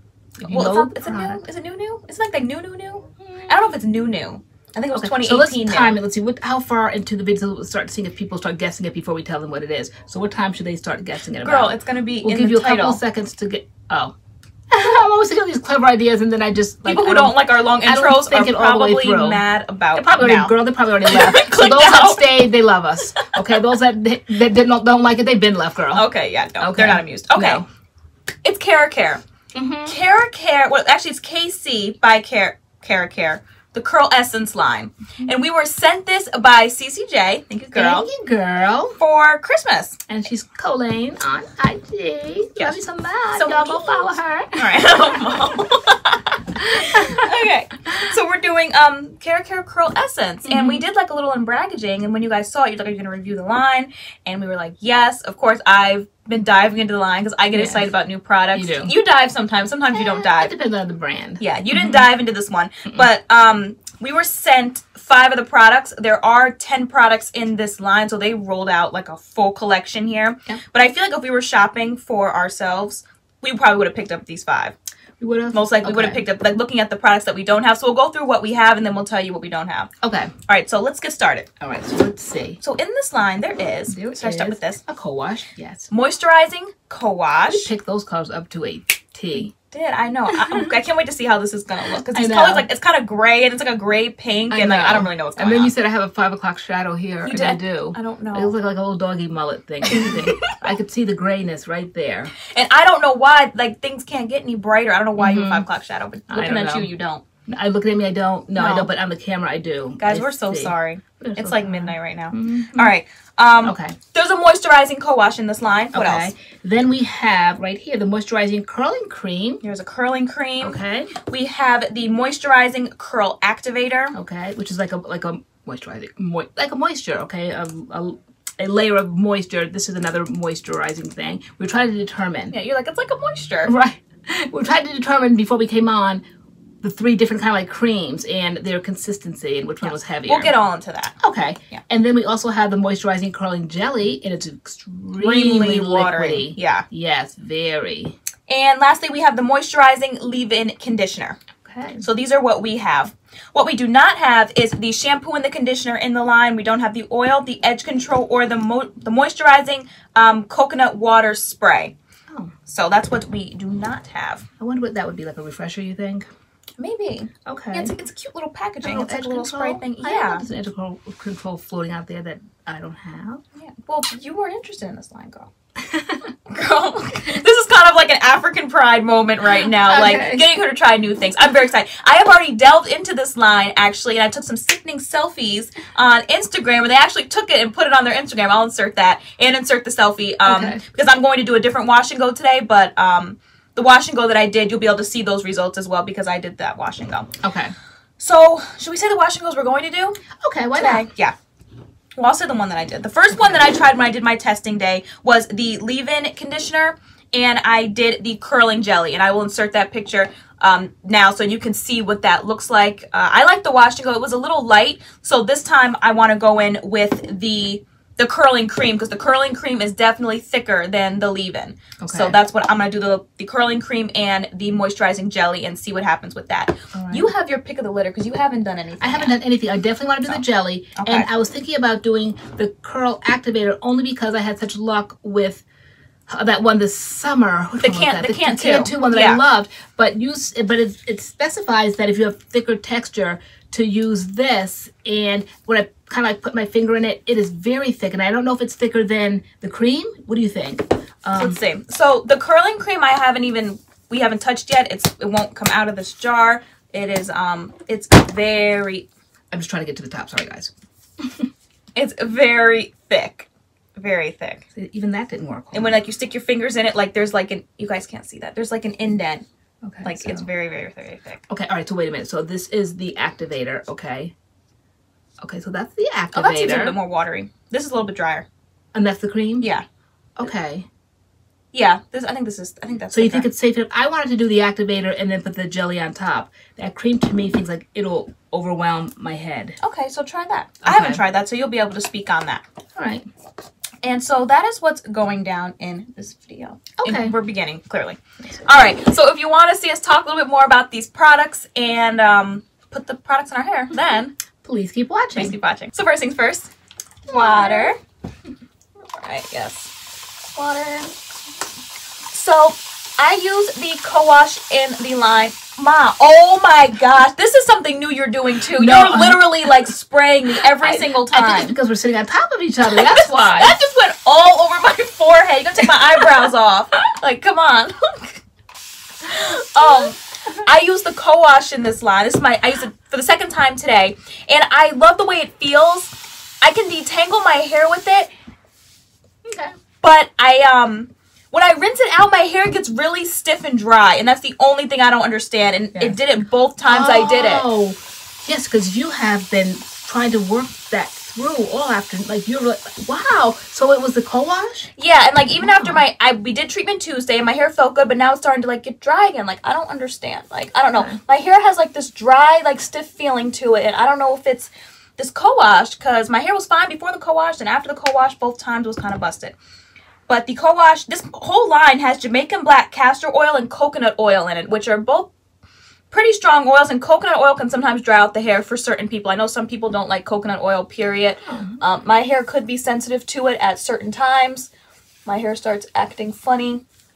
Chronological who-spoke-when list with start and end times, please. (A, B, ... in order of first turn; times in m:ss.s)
0:00.4-0:01.4 A
0:00.4-0:06.0 B
0:03.2-0:03.7 A
0:04.9-0:14.1 A
0:11.4-0:13.0 B
0:14.7-0:26.1 A
0:16.8-0:20.6 B
0:21.1-0:22.3 B
0:25.9-0:27.6 B
0:26.6-0:27.7 A
0:28.4-0:29.2 B
0:29.5-0:30.0 A
0:29.8-0:38.1 B
0:37.7-0:39.0 A
0:39.0-0:40.0 B
0:40.1-0:44.7 A
0:43.3-1:00.5 B
0:46.7-0:47.3 A
0:50.4-0:50.8 A
0:57.5-0:57.9 A
0:58.5-0:58.9 A
0:59.9-1:02.1 A
1:01.4-1:14.8 B
1:15.2-1:16.2 A
1:15.5-1:19.9 B
1:20.0-1:20.3 A
1:20.5-1:21.5 B
1:21.6-1:22.6 A
1:22.6-1:24.8 B
1:23.9-1:25.9 A
1:25.9-1:27.7 B
1:27.5-1:29.5 A
1:29.5-1:35.7 B
1:30.3-1:30.7 A
1:32.1-1:32.7 A
1:34.5-1:42.3 A
1:37.2-1:38.6 B
1:39.9-1:40.6 B
1:42.4-1:47.2 B
1:45.2-1:45.7 A
1:46.3-1:46.9 A
1:47.5-1:52.9 A
1:48.5-1:48.9 B
1:50.0-1:56.3 B
1:53.6-1:54.0 A
1:55.9-1:59.6 A
1:59.6-2:04.2 B
2:00.6-2:01.1 A
2:04.1-2:12.5 A
2:12.5-2:13.7 B
2:13.6-2:16.2 A
2:16.8-2:20.5 A
2:19.8-2:21.1 B
2:21.2-2:28.1 A
2:25.2-2:26.9 B
2:28.5-2:31.4 B
2:31.6-2:32.0 A
2:32.0-2:41.9 B
2:42.7-2:44.5 B
2:44.6-2:46.2 A
2:46.8-2:50.4 B
2:47.4-2:47.9 A
2:48.8-2:53.4 A
2:53.6-2:55.5 B
2:55.8-2:56.3 A
2:56.4-3:17.3 B
2:59.6-3:00.5 A
3:10.4-3:10.8 A
3:17.4-3:17.7 A
3:18.2-3:20.2 B
3:20.4-3:21.1 A
3:20.8-3:21.3 B
3:22.2-3:49.4 B
3:42.0-3:42.4 A
3:46.9-3:47.3 A
3:49.0-3:55.6 A
3:51.0-3:51.3 B
3:56.3-4:11.6 A
3:57.8-3:59.4 B
4:11.3-4:19.1 B
4:19.5-4:21.5 A
4:21.9-4:24.6 B
4:24.7-4:26.0 A
4:25.7-4:29.5 B
4:29.8-4:30.5 A
4:30.0-4:31.4 B
4:31.5-4:34.3 A
4:35.4-4:37.0 A
4:36.3-4:38.5 B
4:38.9-4:39.7 A
4:39.6-4:39.8 B
4:40.4-4:40.9 A
4:41.7-4:43.5 B
4:43.1-4:49.8 A
4:49.8-4:52.6 B
4:50.8-4:51.2 A
4:52.9-4:53.2 A
4:54.0-5:04.4 B
4:57.0-4:57.4 A
5:04.6-5:05.6 A
5:05.4-5:06.7 B
5:07.3-5:07.9 A
5:07.3-5:08.0 B
5:09.1-5:09.9 B
5:10.6-5:11.1 B
5:12.3-5:21.8 B
5:18.8-5:19.9 A
5:20.6-5:23.8 A
5:22.9-5:28.4 B
5:29.2-5:38.3 B
5:29.8-5:30.6 A
5:39.4-5:39.8 A
5:40.0-5:47.7 B
5:46.9-5:54.9 A
5:55.0-6:09.6 B
5:55.6-5:56.0 A
6:10.3-6:15.3 B
6:16.1-6:24.7 B
6:21.5-6:21.8 A
6:25.2-6:26.8 B